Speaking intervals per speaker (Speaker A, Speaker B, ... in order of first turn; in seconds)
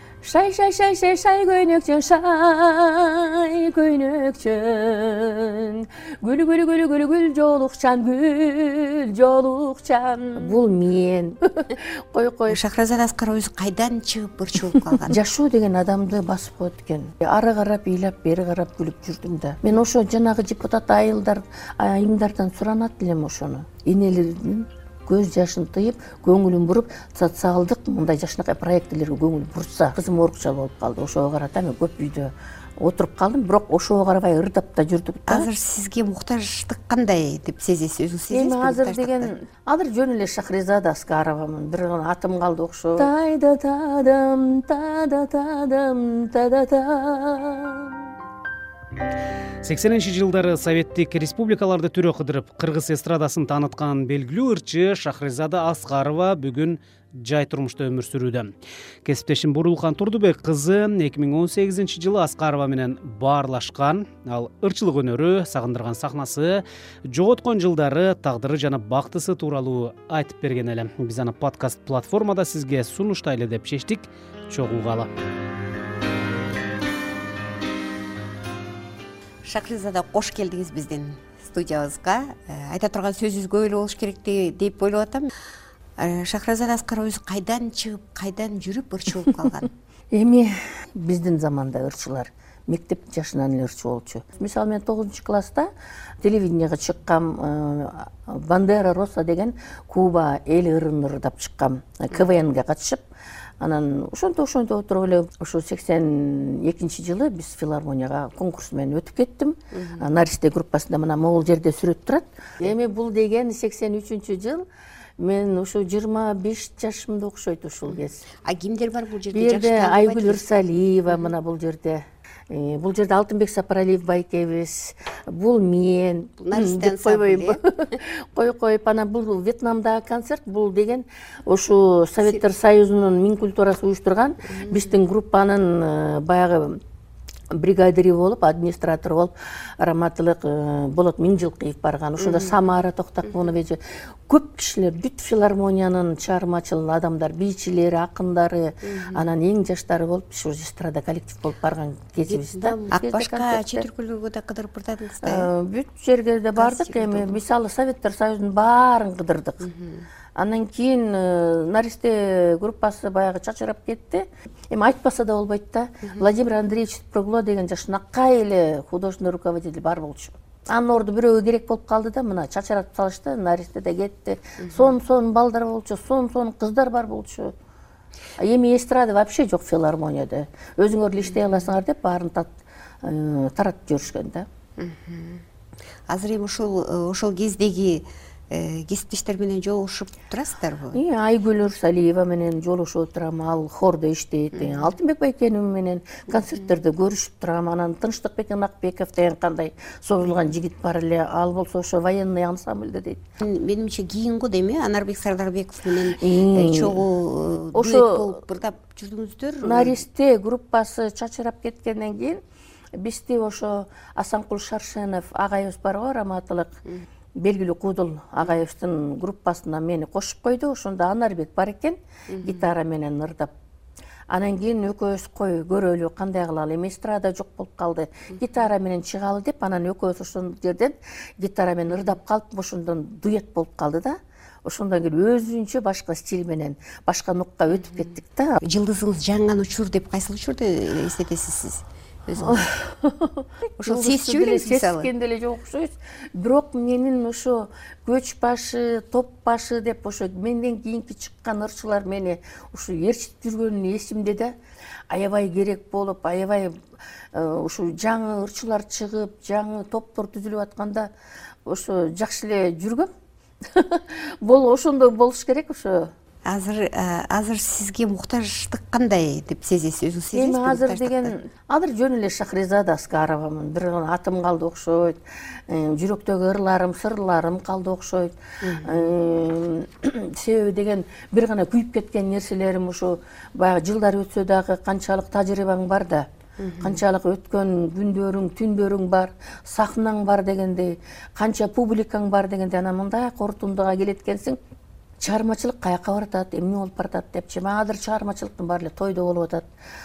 Speaker A: 0.2-12.6, 15.1-35.5, 38.3-48.1, 90.1-95.7, 96.2-103.0, 103.6-114.7, 115.2-118.2, 119.3-136.8, 137.5-153.8, 155.2-159.7, 160.3-177.5, 178.4-184.4, 190.9-203.2, 206.2-207.0, 207.7-208.4, 209.6-212.4, 213.0-216.8, 217.4-223.5, 224.3-238.6, 242.4-254.5, 255.1-256.7, 257.3-261.1, 261.6-263.1, 263.7-266.1, 270.3-286.2, 286.8-294.6, 295.2-299.7
Speaker B: 12.5-15.2, 35.3-39.3, 79.4-85.3, 86.0-89.7, 109.7-110.0, 117.8-120.5, 126.4-127.6, 134.5-135.0, 142.2-142.6, 148.8-149.3, 152.2-155.5, 156.6-157.4, 159.6-160.0, 181.3-181.7, 184.8-185.4, 186.1-191.0, 194.6-194.9, 203.4-210.0, 222.3-222.7, 238.6-242.7, 243.8-245.1, 266.4-271.3, 278.6-279.1, 286.6-287.0
Speaker C: 49.6-58.5, 59.0-75.1